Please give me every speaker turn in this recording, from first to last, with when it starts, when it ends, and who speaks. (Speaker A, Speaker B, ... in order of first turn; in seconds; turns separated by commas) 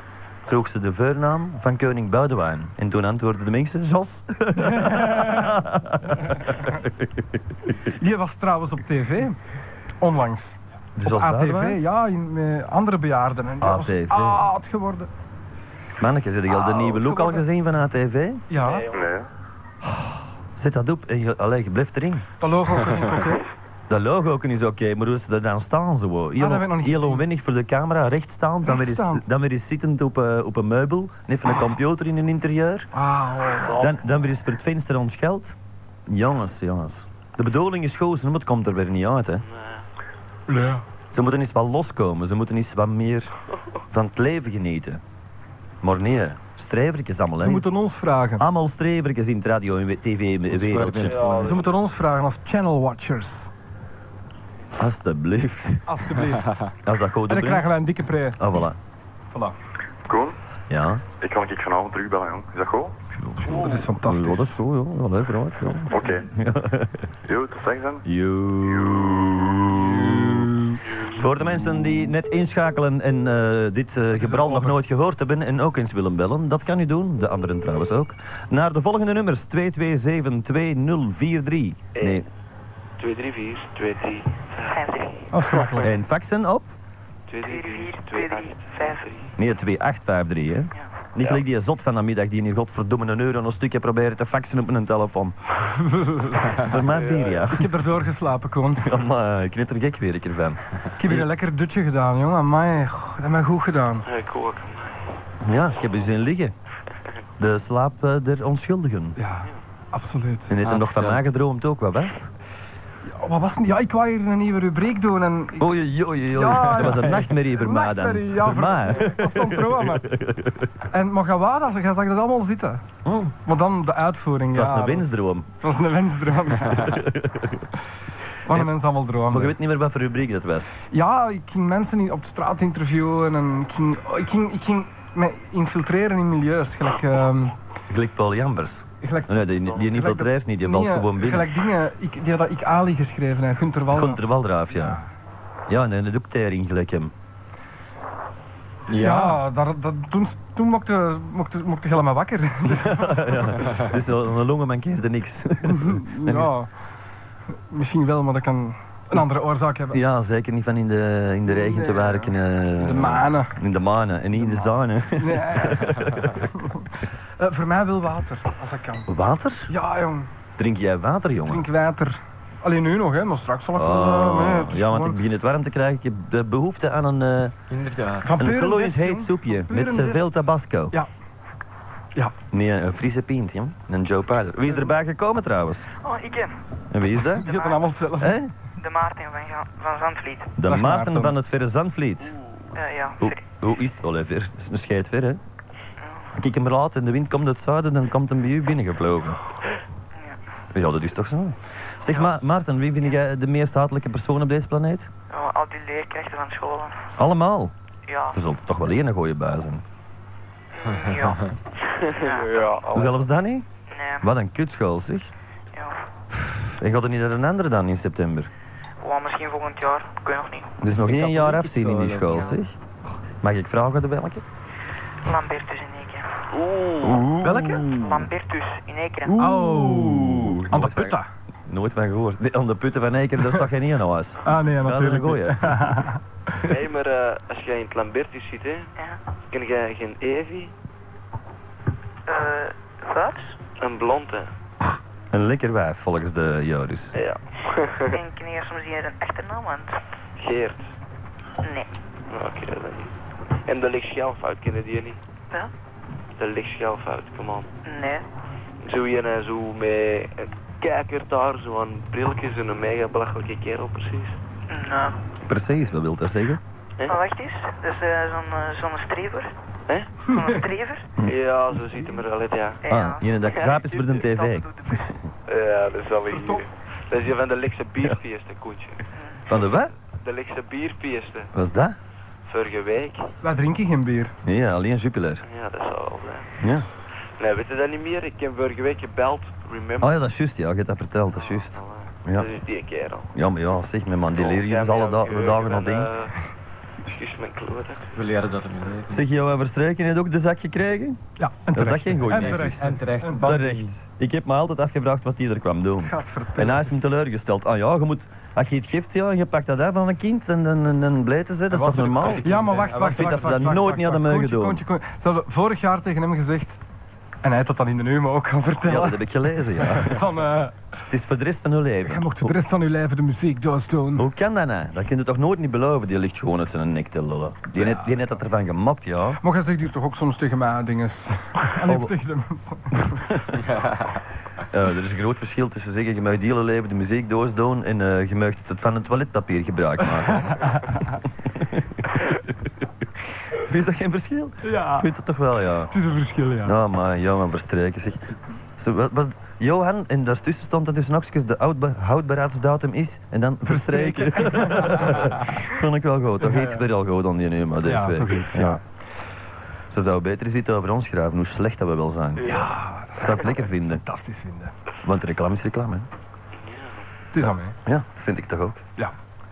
Speaker A: 0.5-7.4, Speaker B: 4.6-5.6, Speaker B: 7.9-9.4, Speaker B: 10.0-15.1, Speaker A: 11.0-11.9, Speaker A: 13.6-14.4, Speaker A: 16.0-18.4, Speaker B: 16.5-17.4, Speaker B: 18.5-18.9, Speaker C: 18.6-19.0, Speaker D: 18.9-19.3, Speaker A: 20.5-22.2, Speaker B: 22.4-23.4, Speaker A: 23.9-32.9, Speaker B: 26.4-27.2, Speaker B: 28.6-29.2, Speaker B: 32.9-33.8, Speaker C: 33.6-33.9, Speaker A: 33.7-39.4, Speaker C: 39.4-39.8, Speaker B: 40.5-40.8, Speaker A: 41.1-43.3, Speaker A: 43.9-45.0, Speaker A: 45.8-47.6, Speaker B: 47.4-48.4, Speaker A: 48.4-51.5, Speaker E: 50.5-51.4, Speaker C: 51.0-51.8, Speaker B: 51.4-53.5, Speaker A: 54.8-56.0, Speaker B: 55.9-56.7, Speaker A: 56.8-57.8, Speaker B: 57.3-58.4, Speaker A: 58.4-58.8, Speaker D: 60.0-60.4, Speaker A: 60.7-61.0, Speaker D: 61.2-63.0, Speaker A: 63.2-67.1, Speaker B: 63.4-64.6, Speaker D: 65.9-66.3, Speaker D: 67.2-68.0, Speaker A: 68.0-82.2, Speaker D: 68.7-69.4, Speaker B: 74.3-74.7, Speaker C: 81.9-82.2, Speaker C: 83.0-84.8, Speaker F: 84.7-85.3, Speaker B: 85.3-85.9, Speaker A: 85.8-86.7, Speaker C: 87.3-89.3, Speaker F: 87.4-89.1, Speaker A: 89.4-95.3, Speaker B: 95.6-96.7, Speaker A: 96.6-97.7, Speaker C: 96.9-97.5, Speaker B: 97.5-98.9, Speaker A: 98.8-101.3, Speaker B: 101.0-104.0, Speaker C: 104.0-105.0, Speaker A: 105.4-106.5, Speaker A: 107.4-109.2, Speaker B: 109.2-110.5, Speaker A: 110.5-112.3, Speaker E: 110.6-111.3, Speaker B: 113.0-115.7, Speaker A: 115.6-120.7, Speaker B: 116.3-120.1, Speaker B: 120.9-122.8, Speaker A: 123.0-123.3, Speaker B: 123.4-127.0, Speaker A: 124.5-125.5, Speaker A: 126.7-127.7, Speaker B: 128.4-129.5, Speaker A: 129.3-130.8, Speaker B: 130.9-137.5, Speaker A: 137.9-141.5, Speaker B: 139.0-145.0, Speaker A: 143.9-145.0, Speaker A: 145.7-147.1, Speaker E: 148.9-149.4, Speaker B: 148.9-153.8, Speaker A: 152.7-156.5, Speaker B: 155.7-156.7, Speaker B: 157.7-160.0, Speaker A: 159.9-166.4, Speaker B: 161.5-163.6, Speaker B: 164.4-169.1, Speaker A: 169.1-169.7, Speaker B: 169.7-170.3, Speaker A: 170.6-171.7, Speaker B: 171.5-175.2, Speaker A: 173.7-177.5, Speaker E: 177.7-178.3, Speaker B: 178.2-181.1, Speaker A: 178.4-180.9, Speaker A: 182.5-185.9, Speaker F: 186.0-186.5, Speaker A: 186.9-187.5, Speaker B: 187.4-188.4, Speaker F: 187.5-187.8, Speaker A: 188.2-188.5, Speaker F: 188.8-190.6, Speaker A: 190.6-192.3, Speaker B: 190.7-191.3, Speaker F: 192.7-193.4, Speaker A: 193.2-195.4, Speaker F: 196.0-196.3, Speaker A: 196.3-199.4, Speaker A: 200.7-205.1, Speaker F: 205.3-207.1, Speaker A: 207.1-207.7, Speaker F: 208.1-208.3, Speaker A: 208.3-209.8, Speaker F: 210.7-211.5, Speaker C: 211.9-213.2, Speaker F: 212.2-212.8, Speaker A: 212.9-213.7, Speaker F: 213.9-214.3, Speaker A: 214.2-215.3, Speaker F: 215.7-216.0, Speaker A: 216.3-218.5, Speaker F: 219.0-220.7, Speaker A: 220.8-222.8, Speaker E: 220.9-222.6, Speaker A: 223.4-224.4, Speaker F: 225.2-226.3, Speaker C: 226.5-227.3, Speaker A: 227.0-228.3, Speaker B: 227.4-227.9, Speaker F: 227.9-229.3, Speaker B: 229.3-231.3, Speaker A: 229.3-235.8, Speaker B: 234.4-236.2, Speaker C: 236.6-238.9, Speaker C: 239.5-240.7, Speaker F: 242.3-243.6, Speaker C: 243.8-244.5, Speaker A: 245.3-247.1, Speaker C: 247.1-248.2, Speaker F: 248.1-249.9, Speaker C: 250.4-250.8, Speaker C: 252.3-253.1, Speaker C: 253.7-255.2, Speaker C: 256.4-257.7, Speaker F: 257.8-258.2, Speaker C: 258.8-264.4, Speaker F: 264.7-265.1, Speaker A: 265.4-266.6, Speaker F: 267.1-269.5, Speaker F: 270.3-271.1, Speaker C: 271.2-272.8, Speaker F: 272.8-275.1, Speaker A: 272.9-274.7, Speaker C: 275.5-279.0, Speaker B: 276.3-276.6, Speaker A: 279.5-279.9, Speaker C: 280.2-281.5, Speaker A: 281.5-282.0, Speaker C: 282.5-283.3, Speaker B: 283.4-284.3, Speaker A: 284.4-285.4, Speaker C: 285.4-286.5, Speaker A: 286.6-286.9, Speaker C: 287.4-290.2, Speaker A: 290.0-292.5, Speaker C: 291.3-293.3, Speaker A: 293.3-296.1, Speaker C: 294.4-296.4, Speaker C: 297.1-298.1, Speaker E: 298.1-299.2, Speaker A: 299.1-314.8, Speaker B: 301.4-303.5, Speaker E: 302.3-303.9, Speaker B: 306.0-307.1, Speaker E: 311.8-313.7, Speaker B: 311.9-316.8, Speaker B: 317.4-320.7, Speaker A: 318.8-320.3, Speaker A: 321.1-322.5, Speaker B: 322.1-324.3, Speaker A: 324.2-329.4, Speaker B: 327.8-328.1, Speaker B: 329.4-333.4, Speaker A: 331.9-332.1, Speaker A: 334.7-340.7, Speaker B: 340.2-341.2, Speaker A: 343.5-345.9, Speaker B: 344.6-345.1, Speaker B: 345.9-346.7, Speaker A: 346.6-348.2, Speaker A: 348.8-358.8, Speaker B: 353.7-355.3, Speaker B: 356.4-356.8, Speaker B: 357.8-358.8, Speaker A: 359.9-362.6, Speaker C: 362.4-362.6, Speaker B: 362.4-364.7, Speaker A: 363.2-364.0, Speaker A: 365.0-366.1, Speaker C: 366.5-367.1, Speaker B: 367.3-367.8, Speaker A: 367.9-368.8